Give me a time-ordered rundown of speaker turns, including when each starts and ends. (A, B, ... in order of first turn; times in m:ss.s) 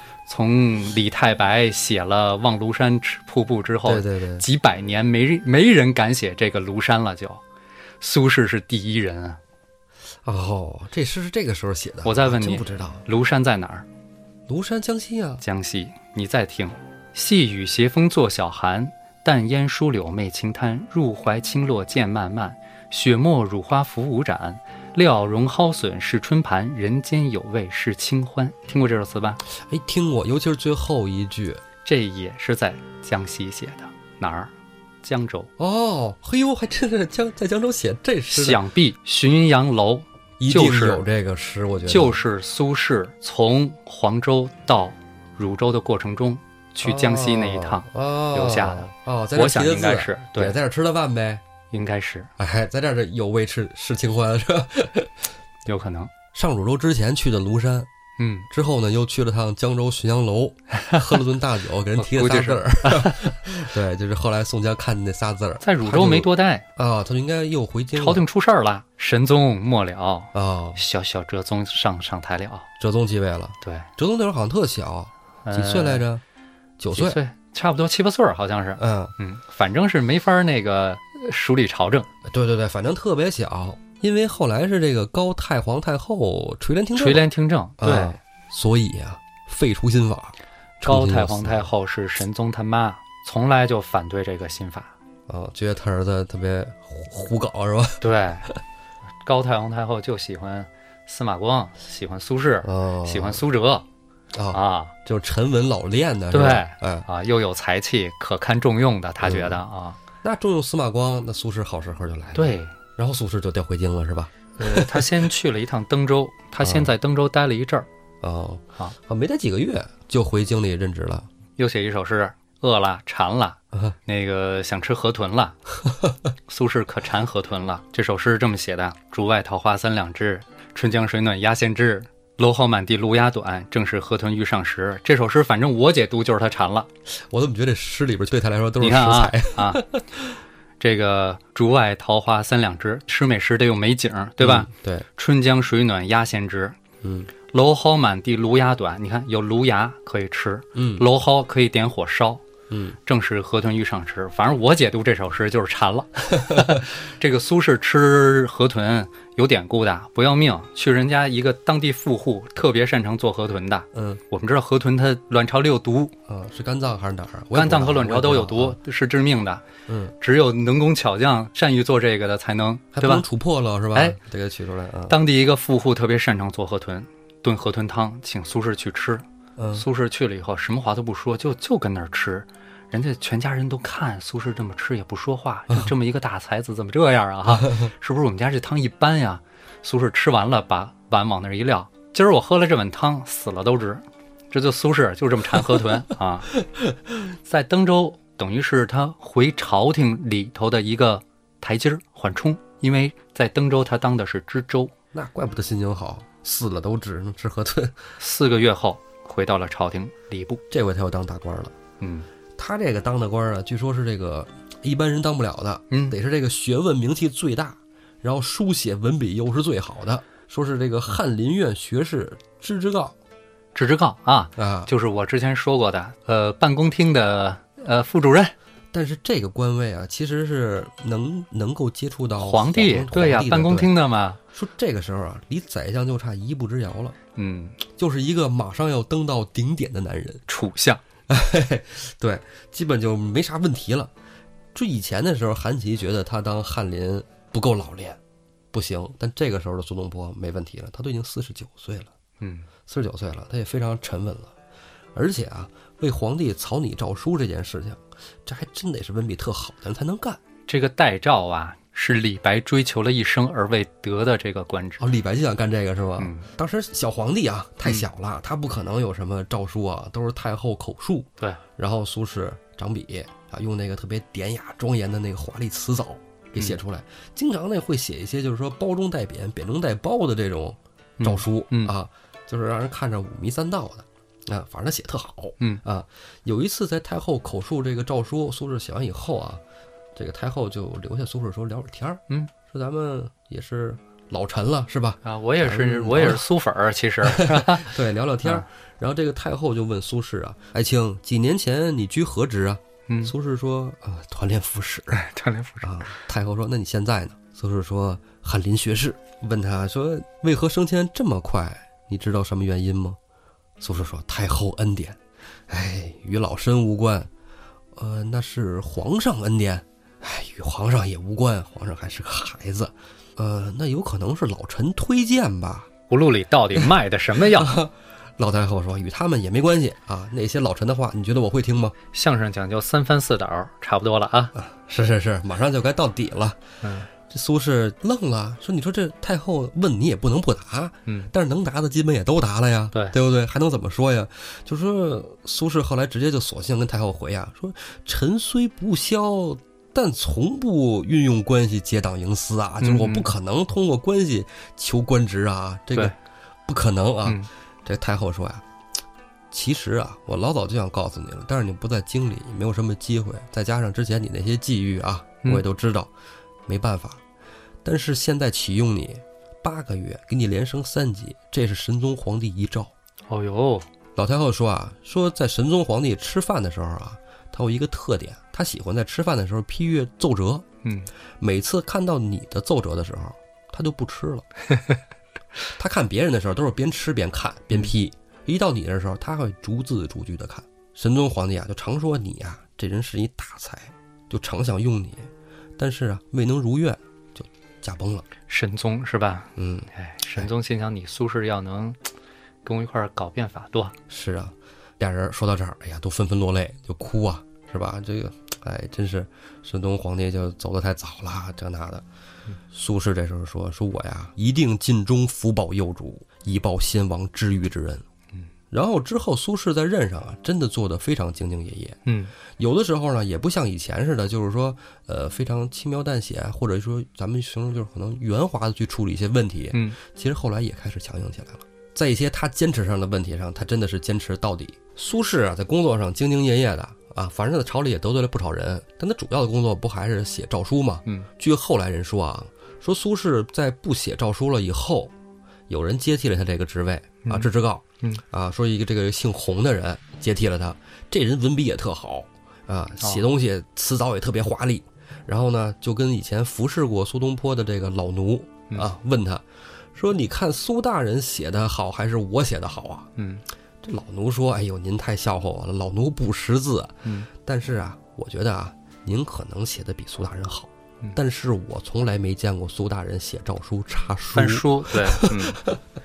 0:00.3-0:07.4 A
0:03.8-0:04.4 B
0:08.0-0:09.4 A
0:10.2-0:13.0 B
0:12.0-0:13.8 A
0:14.5-0:15.4 B
0:15.4-0:29.4 A
0:29.5-0:31.6 B
0:31.8-0:34.5 A
0:35.0-0:35.5 A
0:35.6-0:38.6 B
0:38.3-0:41.0 A
0:40.4-0:42.2 B
0:41.8-0:50.6 A
0:46.8-0:51.4 B
0:51.7-0:52.3 A
0:52.4-0:55.3 B
0:55.6-0:56.1 A
0:56.3-0:57.9 B
0:58.2-0:58.5 A
0:58.5-1:08.2 B
1:00.7-1:01.0 A
1:02.0-1:03.4 A
1:05.6-1:06.6 A
1:07.9-1:12.7 A
1:10.3-1:10.8 B
1:12.8-1:16.2 B
1:13.6-1:13.9 A
1:15.4-1:16.0 A
1:16.8-1:17.2 B
1:16.9-1:22.1 A
1:18.8-1:19.1 B
1:22.2-1:27.2 B
1:27.0-1:28.2 A
1:27.8-1:31.7 B
1:30.8-1:34.9 A
1:35.3-1:38.6 B
1:38.0-1:38.5 A
1:39.2-1:43.8 A
1:42.6-1:43.4 B
1:44.3-1:47.1 B
1:44.5-1:44.9 A
1:46.3-1:50.0 A
1:49.2-1:49.6 B
1:50.2-1:55.3 B
1:52.3-1:52.7 A
1:54.6-1:57.9 A
1:56.6-1:56.9 B
1:58.2-2:01.3 B
2:01.6-2:05.6 A
2:06.5-2:16.9 A
2:17.1-2:20.4 B
2:18.8-2:19.8 A
2:20.8-2:26.8 A
2:24.4-2:25.0 B
2:27.0-2:27.3 B
2:27.5-2:32.4 A
2:30.7-2:31.1 B
2:32.7-2:33.0 B
2:33.0-2:46.1 A
2:36.4-2:36.8 B
2:43.9-2:44.2 B
2:46.3-2:48.8 B
2:47.5-2:49.6 A
2:49.9-2:50.1 B
2:50.2-2:53.2 A
2:52.9-2:55.2 B
2:55.1-3:16.5 A
2:59.6-2:59.8 B
3:07.5-3:07.9 B
3:16.6-3:17.2 B
3:17.4-3:24.9 A
3:25.1-3:28.1 B
3:28.2-3:30.6 A
3:30.7-3:31.8 B
3:32.0-3:32.3 A
3:32.6-3:43.1 B
3:35.9-3:36.2 A
3:43.7-3:48.5 A
3:44.6-3:44.9 B
3:48.9-3:53.9 B
3:52.4-3:54.4 A
3:54.5-3:57.2 B
3:57.4-3:57.8 A
3:57.9-4:00.4 B
4:00.5-4:01.0 A
4:01.3-4:04.1 B
4:04.7-4:08.2 B
4:08.7-4:12.1 B
4:12.4-4:12.7 A
4:12.9-4:14.5 B
4:15.1-4:20.4 B
4:20.7-4:25.0 A
4:25.0-4:49.6 B
4:26.2-4:26.5 A
4:41.2-4:41.9 A
4:50.1-4:56.5 B
4:55.2-4:58.6 A
4:57.2-5:05.2 B
5:03.1-5:03.3 A
5:05.1-5:06.2 A
5:05.8-5:13.2 B
5:13.8-5:17.3 B
5:17.9-5:25.9 B
5:26.1-5:27.7 A
5:26.8-5:31.9 B
5:32.1-5:34.5 A
5:34.5-5:56.1 B
5:36.8-5:37.1 A
5:41.0-5:41.3 A
5:52.8-5:53.3 A
5:56.6-5:58.6 B
5:59.5-6:06.1 B
6:06.7-6:07.2 B
6:07.8-6:12.9 B
6:13.3-6:13.9 A
6:14.2-6:20.6 B
6:20.8-6:21.1 A
6:21.4-6:24.4 B
6:25.8-6:38.2 B
6:38.5-6:42.0 A
6:39.6-6:40.5 B
6:42.6-6:43.9 A
6:44.1-6:52.0 B
6:52.7-6:58.0 B
6:58.7-7:02.0 B
7:02.0-7:02.3 A
7:02.6-7:25.1 B
7:09.7-7:10.0 A
7:25.7-7:43.1 B
7:27.2-7:27.5 A
7:43.2-7:43.4 A
7:43.8-7:55.8 B
7:47.0-7:47.3 A
7:54.3-7:55.6 A